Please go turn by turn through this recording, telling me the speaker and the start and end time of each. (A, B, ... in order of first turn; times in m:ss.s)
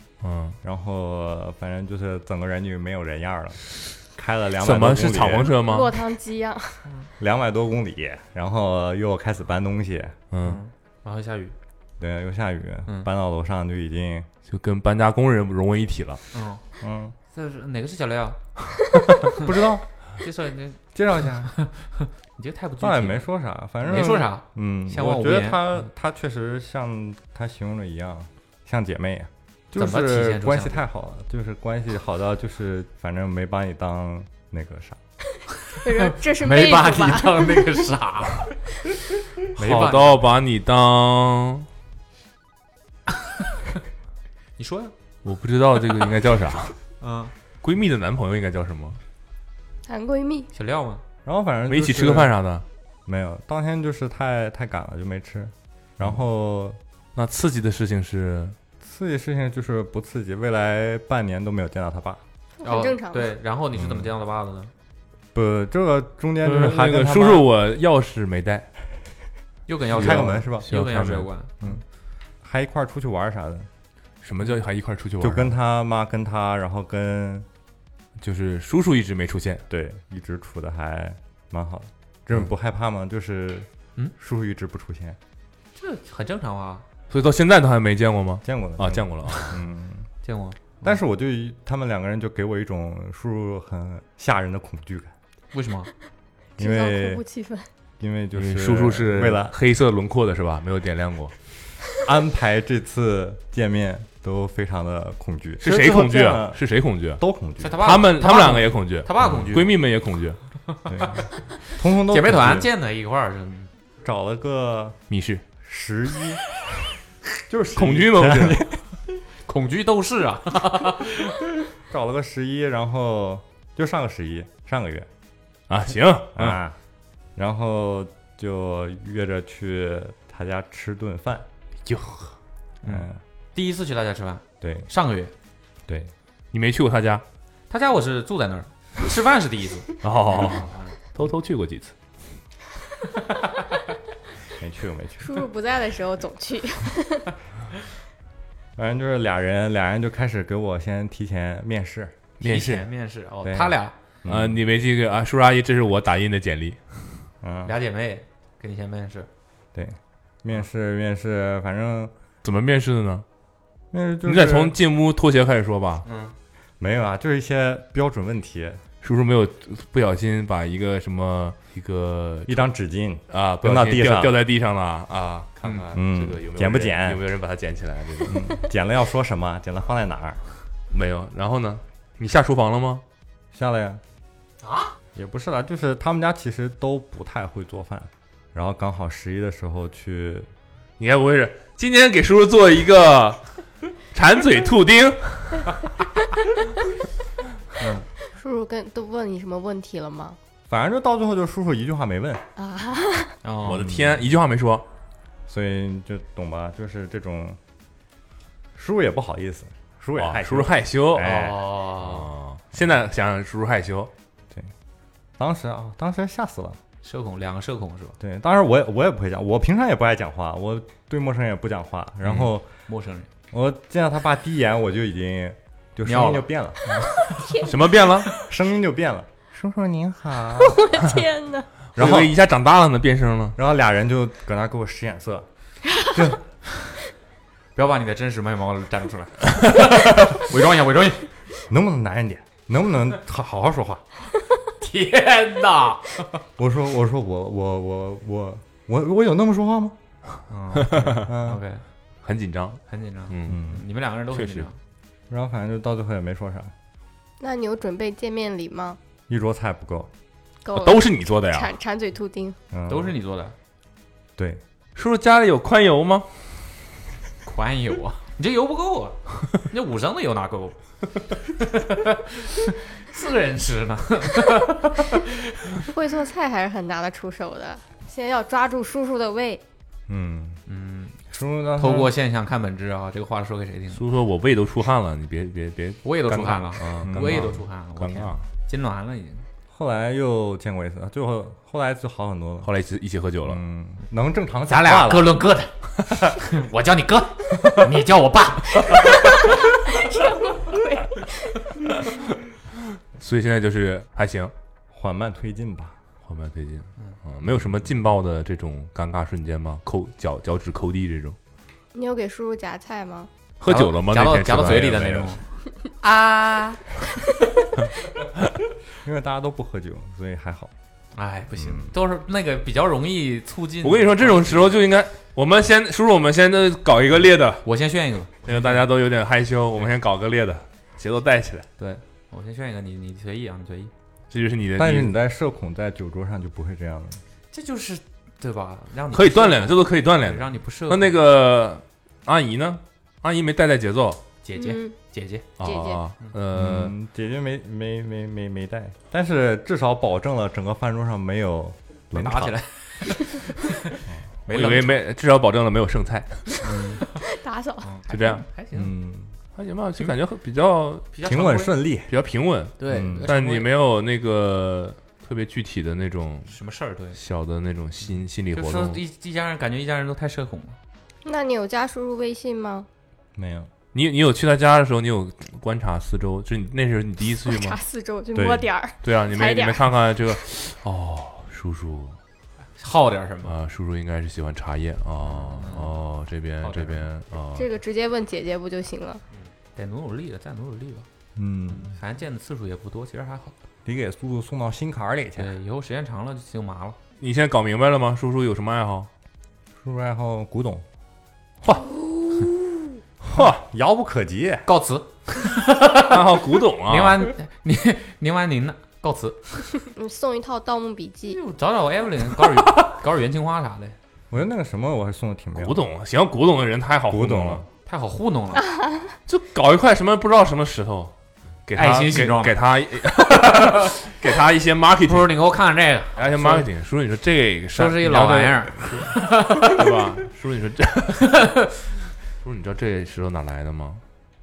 0:00.2-0:00.6 A
0:00.6-0:05.5 B
0:04.6-0:06.1 A
0:05.5-0:06.8 C
0:07.2-0:10.2 B
0:10.3-0:10.6 A
0:10.4-0:11.5 D
0:12.0-0:14.3 B
0:14.5-0:16.2 A
0:16.3-0:16.6 D
0:16.8-0:17.1 B
0:17.3-0:18.4 D
0:19.3-0:19.8 B
0:20.2-0:20.8 D
0:20.9-0:21.5 B
0:21.5-0:23.3 D
0:22.8-0:35.0 B
0:23.8-0:25.9 D
0:29.8-0:30.8 D
0:35.8-0:37.8 C
0:35.9-0:38.5 D
0:39.6-0:40.3 D
0:39.6-0:41.7 A
0:44.6-0:44.9 D
0:45.2-0:46.8 A
0:47.0-0:47.3 D
0:47.6-0:49.0 A
0:49.8-0:50.5 C
0:50.5-0:51.0 D
0:51.2-0:52.3 B
0:51.7-0:52.6 A
0:53.0-0:56.8 B
0:57.1-0:58.6 A
0:58.8-1:02.2 B
1:02.6-1:03.4 C
1:02.6-1:04.7 D
1:03.8-1:04.1 B
1:05.3-1:07.5 B
1:06.4-1:08.7 A
1:09.7-1:11.8 D
1:09.9-1:10.7 B
1:09.9-1:11.3 A
1:12.4-1:13.7 B
1:14.2-1:15.5 A
1:15.2-1:17.5 B
1:18.2-1:19.6 A
1:19.7-1:25.2 B
1:25.8-1:26.8 D
1:27.1-1:29.6 A
1:28.4-1:30.1 B
1:30.2-1:31.0 D
1:30.8-1:35.1 B
1:35.5-1:35.9 D
1:36.6-1:37.2 B
1:36.6-1:37.7 C
1:38.0-1:39.6 B
1:38.4-1:41.3 A
1:42.0-1:46.6 B
1:45.6-1:47.2 A
1:47.2-1:47.9 B
1:47.6-1:49.8 D
1:47.8-1:50.4 A
1:50.8-1:53.7 D
1:50.9-1:52.7 B
1:54.0-1:55.0 B
1:55.1-1:55.4 A
1:55.6-1:56.8 B
1:57.5-1:58.7 B
1:57.7-1:58.6 A
1:59.4-2:01.4 D
2:01.9-2:05.1 B
2:05.7-2:06.6 A
2:06.3-2:06.8 B
2:07.4-2:11.4 B
2:11.8-2:12.3 A
2:12.8-2:13.2 B
2:12.8-2:15.3 D
2:14.6-2:14.9 B
2:15.9-2:16.1 B
2:16.5-2:17.2 A
2:17.7-2:20.9 D
2:20.0-2:21.9 A
2:20.3-2:20.6 B
2:24.6-2:25.4 B
2:25.2-2:27.3 C
2:28.8-2:32.2 B
2:32.4-2:32.9 A
2:32.4-2:33.9 D
2:33.4-2:34.6 B
2:34.2-2:37.1 A
2:37.4-2:37.7 B
2:37.6-2:39.3 D
2:39.7-2:42.1 B
2:42.4-2:43.2 A
2:43.9-2:44.8 B
2:44.2-2:46.0 A
2:46.0-2:46.3 D
2:46.8-2:48.8 B
2:49.0-2:52.7 A
2:52.5-2:54.4 B
2:53.3-2:58.5 A
2:55.9-2:57.2 B
2:58.2-3:00.4 B
3:00.9-3:03.0 A
3:03.5-3:04.0 B
3:04.6-3:04.9 D
3:05.1-3:10.5 B
3:11.0-3:13.4 A
3:14.1-3:15.8 A
3:17.8-3:18.1 D
3:18.3-3:20.4 C
3:20.7-3:22.4 B
3:22.6-3:23.3 C
3:23.4-3:23.8 D
3:23.7-3:24.8 A
3:23.8-3:24.1 B
3:25.5-3:27.6 B
3:28.7-3:31.6 B
3:30.2-3:31.4 A
3:31.2-3:32.3 D
3:32.0-3:34.1 A
3:35.4-3:36.8 B
3:37.0-3:38.2 D
3:38.2-3:42.7 B
3:42.9-3:43.3 D
3:43.5-3:47.2 B
3:46.0-3:47.6 D
3:47.6-3:48.3 A
3:48.4-3:50.9 B
3:50.7-3:51.7 C
3:51.9-3:53.6 A
3:52.0-3:52.4 B
3:53.6-3:55.5 B
3:56.0-3:56.4 B
3:57.8-4:01.3 D
4:01.7-4:04.0 B
4:04.8-4:06.4 D
4:06.6-4:10.0 B
4:10.5-4:11.8 D
4:10.8-4:11.3 A
4:11.1-4:11.6 B
4:12.2-4:13.6 A
4:12.9-4:14.8 D
4:13.5-4:13.8 B
4:14.3-4:14.7 A
4:15.3-4:16.7 B
4:17.4-4:19.0 C
4:19.3-4:20.1 B
4:20.6-4:22.6 C
4:20.7-4:21.7 A
4:22.7-4:23.1 B
4:22.9-4:23.6 D
4:24.4-4:24.6 B
4:24.9-4:26.3 A
4:27.4-4:30.8 D
4:31.5-4:35.8 D
4:35.8-4:39.6 C
4:40.1-4:40.6 B
4:40.7-4:41.2 D
4:41.3-4:42.1 B
4:41.8-4:44.0 D
4:43.9-4:48.4 A
4:46.0-4:49.4 D
4:47.0-4:47.5 B
4:49.7-4:52.7 B
4:52.6-4:53.6 A
4:53.4-4:55.4 B
4:54.7-4:59.2 D
4:59.9-5:02.0 C
5:03.2-5:04.5 A
5:04.9-5:06.0 B
5:06.2-5:11.4 A
5:11.9-5:13.3 C
5:13.6-5:15.3 A
5:13.7-5:15.4 D
5:14.6-5:15.3 B
5:16.0-5:16.8 D
5:19.0-5:20.7 B
5:21.1-5:24.7 D
5:21.6-5:21.9 B
5:23.8-5:27.6 A
5:27.6-5:28.4 D
5:28.4-5:31.7 A
5:31.8-5:33.9 D
5:34.3-5:35.1 A
5:34.8-5:37.2 B
5:37.5-5:41.2 D
5:39.1-5:44.2 A
5:44.4-5:45.5 D
5:44.6-5:45.0 C
5:45.6-5:46.9 A
5:45.6-5:46.0 C
5:46.5-5:52.6 B
5:52.1-5:55.0 D
5:54.5-5:56.7 A
5:56.6-5:57.1 D
5:57.2-5:57.9 C
5:57.8-5:58.9 D
5:58.1-5:58.4 A
5:58.7-5:59.3 B
5:59.6-6:01.1 A
6:01.1-6:01.8 D
6:01.2-6:02.1 B
6:02.1-6:06.5 A
6:02.8-6:03.7 D
6:02.8-6:03.3 B
6:06.5-6:07.2 D
6:07.1-6:09.0 A
6:08.5-6:10.8 D
6:11.2-6:12.9 C
6:13.4-6:13.7 B
6:13.9-6:17.8 A
6:17.4-6:19.9 C
6:18.3-6:18.7 B
6:19.0-6:22.2 A
6:22.8-6:23.5 D
6:23.4-6:27.7 A
6:25.2-6:26.0 D
6:26.6-6:27.1 D
6:27.6-6:29.2 C
6:29.3-6:31.1 D
6:31.4-6:32.0 B
6:31.7-6:33.5 D
6:33.8-6:35.5 B
6:35.4-6:37.0 D
6:37.2-6:39.1 A
6:39.8-6:40.8 B
6:43.3-6:43.6 A
6:43.3-6:44.7 B
6:44.7-6:46.2 D
6:46.0-6:47.3 A
6:46.8-6:49.7 D
6:49.9-6:51.4 C
6:51.3-6:54.0 D
6:54.3-6:55.8 B
6:55.6-6:57.7 A
6:57.1-6:57.7 B
6:57.8-6:58.6 D
6:58.6-6:59.1 C
6:59.3-7:01.1 A
7:01.7-7:05.3 A
7:01.7-7:02.6 D
7:03.4-7:03.8 D
7:05.1-7:06.7 D
7:06.2-7:11.4 A
7:07.7-7:09.8 D
7:12.4-7:14.0 A